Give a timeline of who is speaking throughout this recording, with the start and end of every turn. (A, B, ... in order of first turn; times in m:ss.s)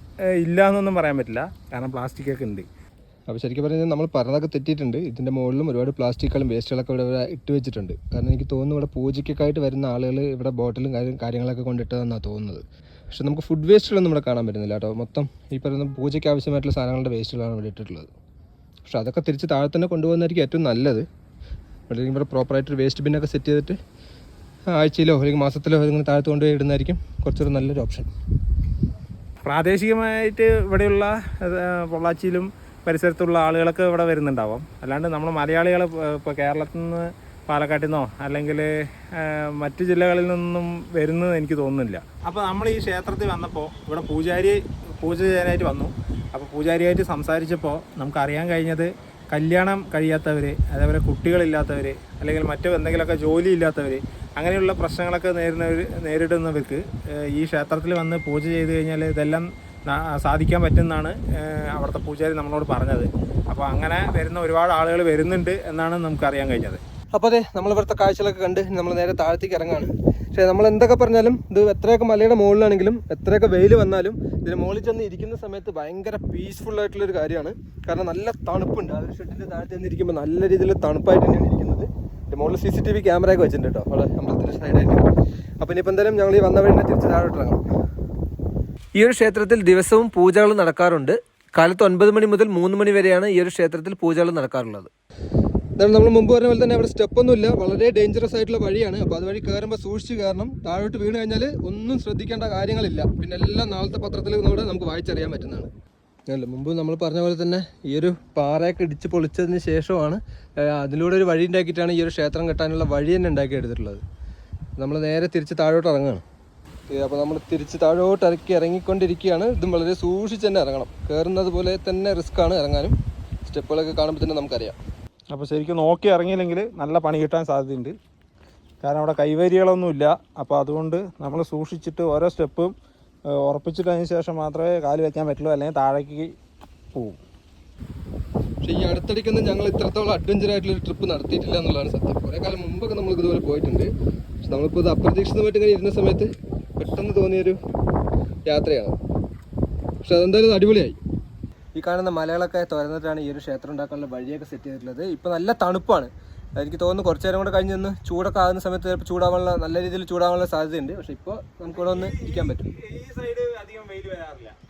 0:00.4-0:02.7 A
0:03.3-0:18.1 B
0:18.9-0:21.0 B
0:21.9-0:23.8 B
0:24.7-0:28.1 B
0:29.4-1:06.8 A
1:07.2-1:25.1 B
1:25.6-1:27.6 B
1:29.0-1:34.9 B
1:35.8-1:45.7 B
1:46.3-1:54.0 B
1:54.8-1:56.2 B
1:56.9-2:04.8 B
2:05.3-2:08.0 A
2:08.8-2:12.7 A
2:13.4-2:16.3 A
2:16.9-2:17.2 A
2:18.6-2:23.9 B
2:24.4-2:27.6 B
2:28.5-2:29.0 B
2:30.0-2:31.0 B
2:31.8-2:42.7 B
2:41.7-2:44.6 A